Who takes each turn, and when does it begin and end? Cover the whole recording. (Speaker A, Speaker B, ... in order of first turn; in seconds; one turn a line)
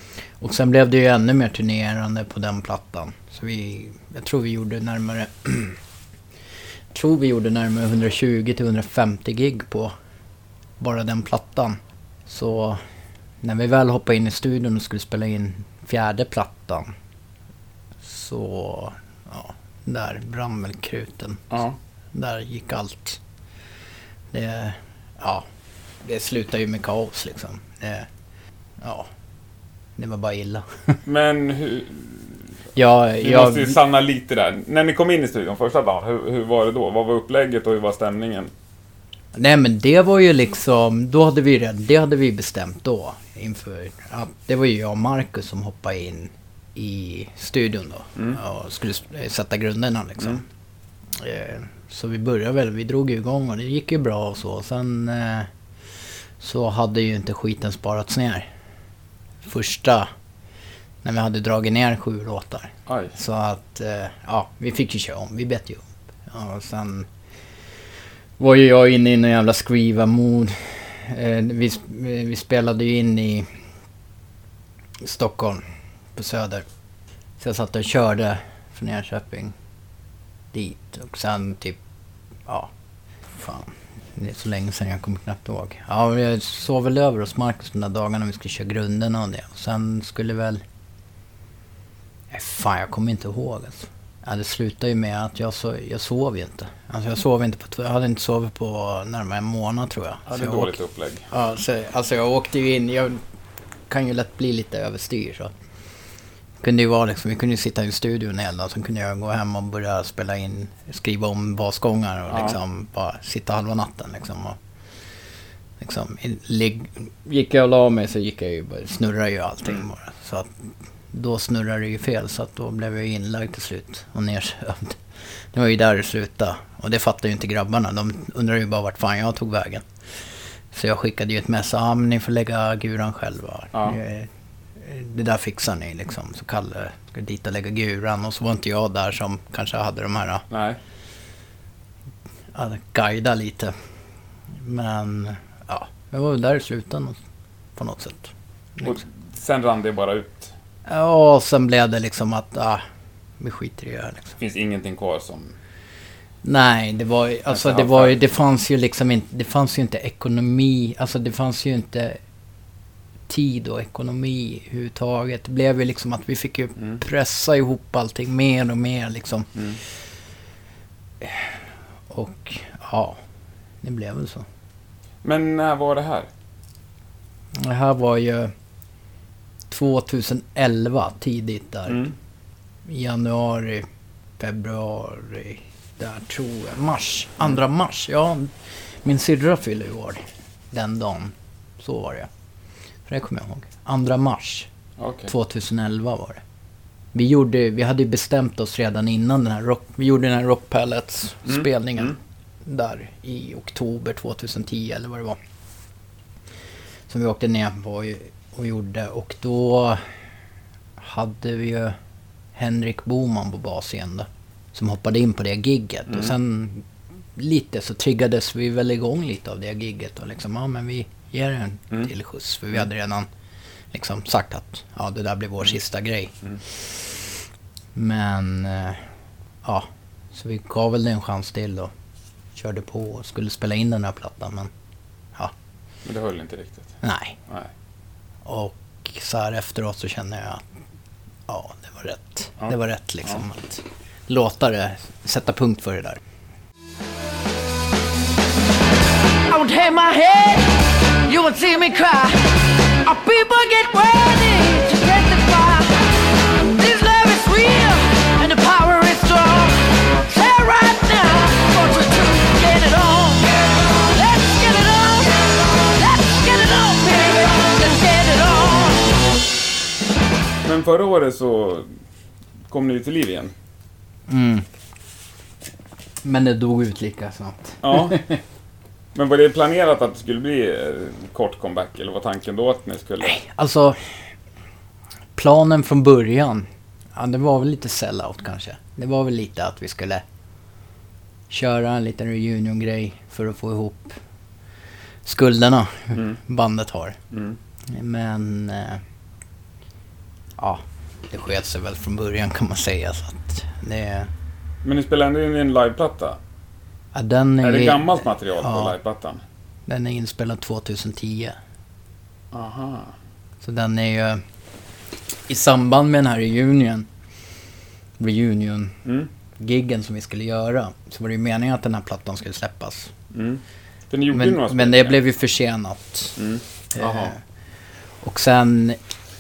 Speaker A: 0.4-5.8
Speaker A: 6.9-9.9
Speaker A: 10.8-12.8
Speaker A: 13.4-16.9
Speaker A: 18.0-23.2
Speaker B: 21.5-21.8
Speaker A: 24.3-25.4
Speaker A: 26.0-28.1
Speaker A: 28.8-29.1
Speaker A: 30.0-31.0
Speaker B: 31.0-32.5
Speaker A: 32.7-33.8
Speaker B: 33.2-38.5
Speaker A: 39.3-50.5
Speaker A: 51.1-55.5
Speaker A: 56.4-58.5
Speaker A: 59.5-60.1
Speaker A: 61.0-67.1
Speaker B: 62.9-63.1
Speaker A: 68.4-73.5
Speaker A: 75.0-76.7
Speaker A: 77.4-79.5
Speaker A: 80.5-81.8
Speaker A: 83.3-90.6
Speaker A: 92.3-100.7
Speaker B: 100.3-101.2
Speaker A: 101.3-103.2
Speaker A: 103.9-105.5
Speaker A: 106.6-114.6
Speaker B: 112.3-112.6
Speaker A: 115.8-120.5
Speaker A: 121.1-129.8
Speaker A: 130.7-140.4
Speaker B: 133.7-134.0
Speaker B: 140.5-140.8
Speaker A: 142.5-143.7
Speaker A: 144.6-147.2
Speaker A: 147.8-149.0
Speaker B: 148.8-150.5
Speaker A: 150.9-152.8
Speaker A: 153.4-154.4
Speaker B: 154.4-155.6
Speaker A: 156.4-162.2
Speaker B: 157.5-158.1
Speaker A: 163.3-169.9
Speaker A: 171.2-173.2
Speaker A: 173.8-174.4
Speaker B: 175.2-176.3
Speaker A: 177.6-178.5
Speaker A: 179.7-182.1
Speaker B: 181.9-182.1
Speaker A: 182.8-183.8
Speaker A: 184.4-192.3
Speaker A: 193.1-194.7
Speaker B: 195.0-195.3
Speaker A: 195.3-196.4
Speaker A: 197.1-205.4
Speaker B: 201.4-202.1
Speaker A: 207.1-210.1
Speaker A: 211.0-211.9
Speaker A: 212.6-223.3
Speaker B: 216.1-216.3
Speaker A: 223.9-227.1
Speaker A: 227.9-229.1
Speaker A: 229.6-231.9
Speaker A: 232.5-234.7
Speaker B: 236.0-237.0
Speaker A: 237.0-237.4
Speaker A: 238.4-240.6
Speaker A: 241.5-246.2
Speaker B: 242.6-243.4
Speaker C: 249.5-256.1
Speaker C: 256.6-269.1
Speaker B: 270.6-271.9
Speaker B: 272.7-273.5
Speaker A: 274.3-274.6
Speaker A: 276.2-278.4
Speaker B: 277.8-278.2
Speaker B: 279.1-283.4
Speaker A: 283.2-284.3
Speaker A: 285.3-290.2
Speaker A: 291.5-294.2
Speaker A: 295.2-297.2
Speaker B: 297.3-297.6
Speaker A: 297.9-299.0
Speaker A: 300.6-304.3
Speaker B: 304.8-306.4
Speaker A: 307.1-308.9
Speaker B: 307.6-309.4
Speaker A: 309.9-311.6
Speaker B: 312.5-313.1
Speaker A: 313.6-314.4
Speaker A: 315.5-317.1
Speaker A: 318.2-319.0
Speaker A: 319.6-323.1
Speaker B: 323.3-325.2
Speaker A: 324.3-326.4
Speaker B: 326.4-327.3
Speaker A: 326.9-327.4
Speaker A: 328.2-329.0